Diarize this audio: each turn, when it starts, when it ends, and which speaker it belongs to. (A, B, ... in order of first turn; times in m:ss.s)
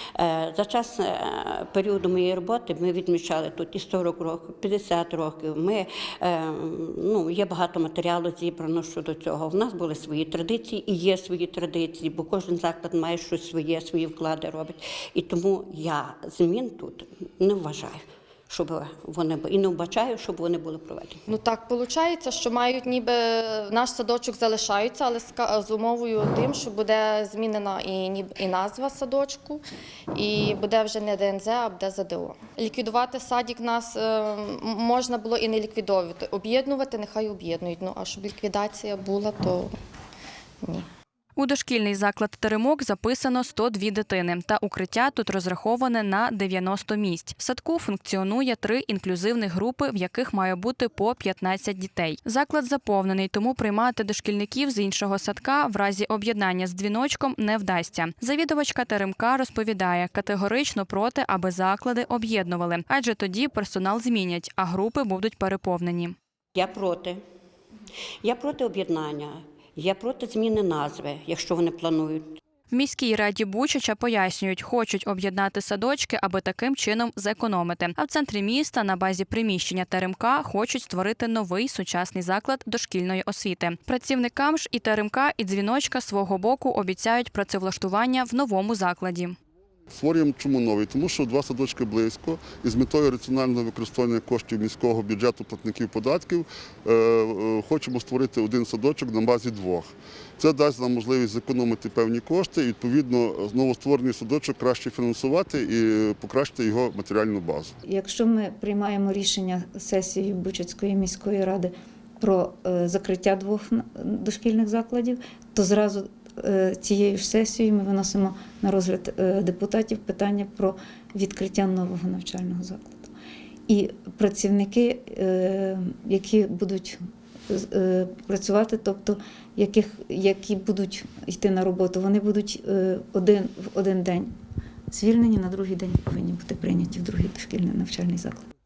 0:00.2-0:21.2 A
0:21.3-0:29.6 B
0:30.1-0:39.7 B
0:41.4-1:06.2 C
1:06.6-1:07.2 A
1:08.2-1:12.4 A
1:12.7-1:29.4 C
1:29.9-1:47.7 D
1:47.8-2:03.1 E
2:03.7-2:07.0 E
2:07.5-2:14.3 E
2:14.9-2:18.4 E